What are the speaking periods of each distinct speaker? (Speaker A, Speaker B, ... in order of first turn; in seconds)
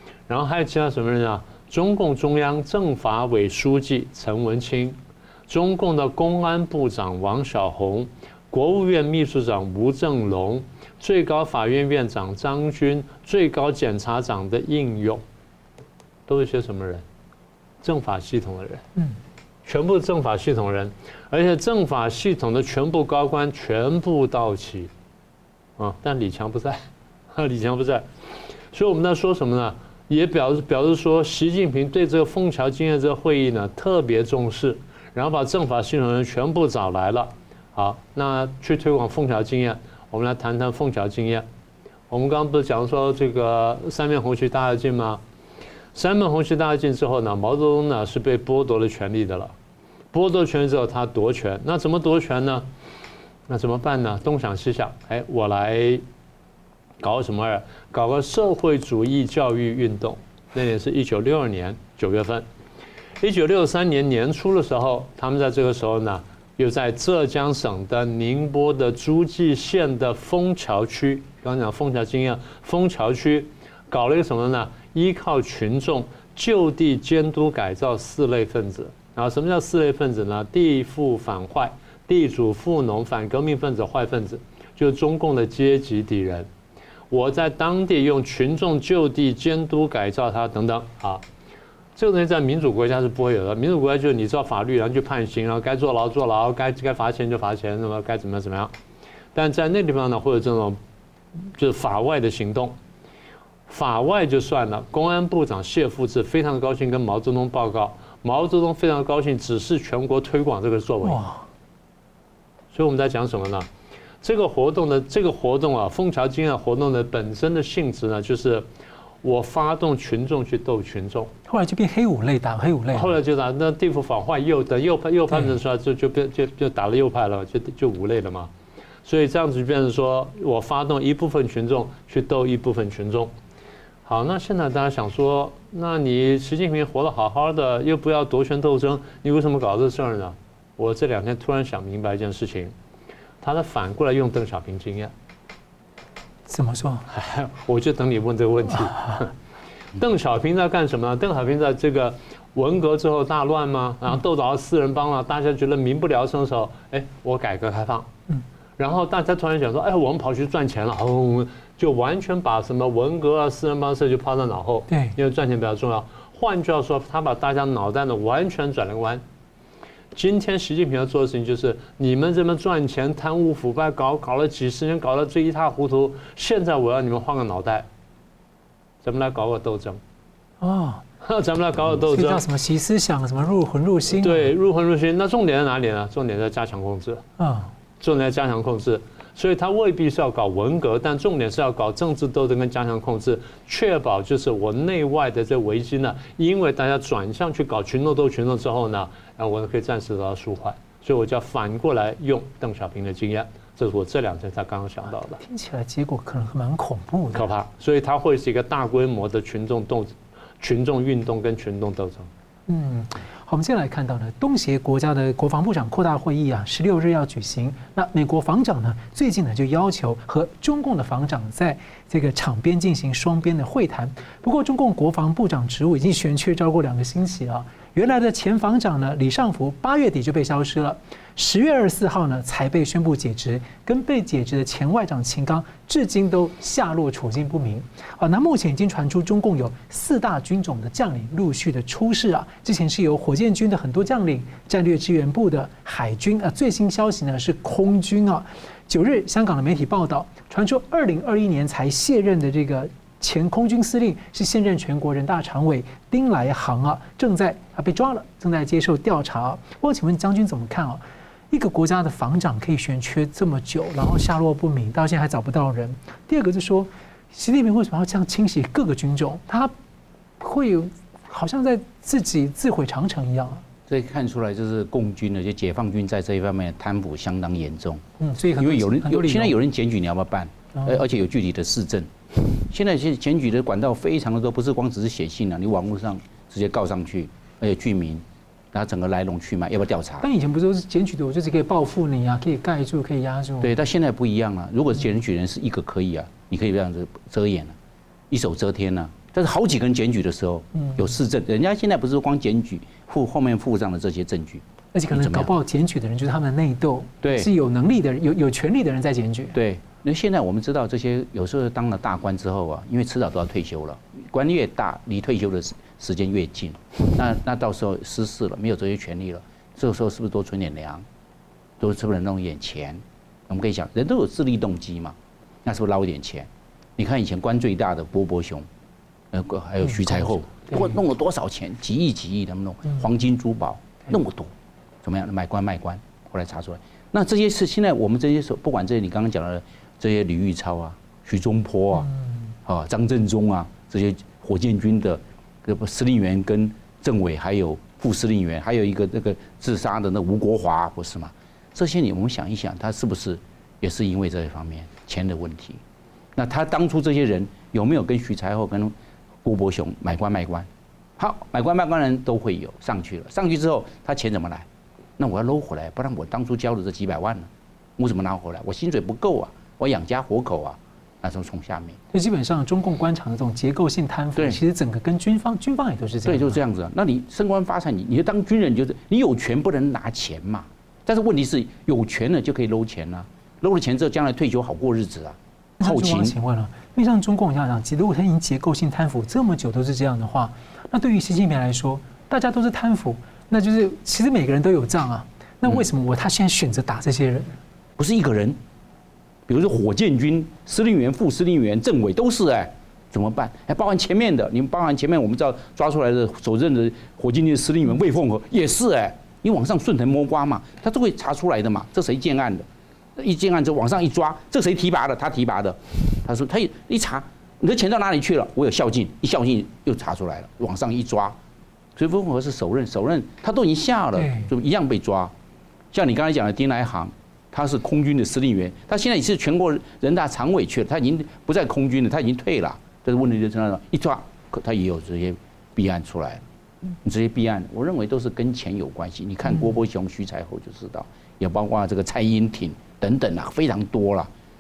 Speaker A: 0.3-15.2, 16.3-17.0, 17.8-18.8, 19.6-24.9, 25.8-28.1, 28.7-41.5, 42.1-45.2, 45.9-49.5, 50.1-52.7, 53.5-56.0, 57.0-62.5, 63.2-86.5, 87.1-91.2, 92.0-98.7, 99.3-100.8, 101.4-102.8, 103.7-111.2, 112.7-113.7, 114.2-118.7, 119.2-121.3, 122.9-128.5, 129.0-133.3, 134.0-142.7, 143.4-145.1, 147.1-149.3, 149.9-158.1, 158.8-169.2, 170.1-177.9, 179.0-180.0, 181.2-182.4, 184.1-187.2, 188.0-205.4, 207.3-212.3
Speaker B: 111.0-111.4, 121.5-123.2, 146.5-147.1, 164.9-165.2, 180.6-181.0, 182.0-184.5, 187.4-187.7, 205.4-207.5, 212.7-269.7, 270.4-273.6, 278.2-279.6, 290.2-293.8, 300.8-301.1, 304.9-309.6, 329.9-330.9, 372.1-376.6, 385.8-397.6, 424.2-424.5
Speaker C: 273.9-278.0, 278.6-290.2, 293.6-297.7, 298.3-305.5, 307.2-307.5, 309.5-321.0, 321.8-328.6, 329.3-334.5, 335.0-342.1, 342.6-355.8, 356.4-358.9, 359.4-364.7, 365.2-372.0, 376.2-386.3, 398.0-398.6, 399.5-412.6, 413.2-421.4, 421.9-425.3, 425.9-436.4, 437.0-444.3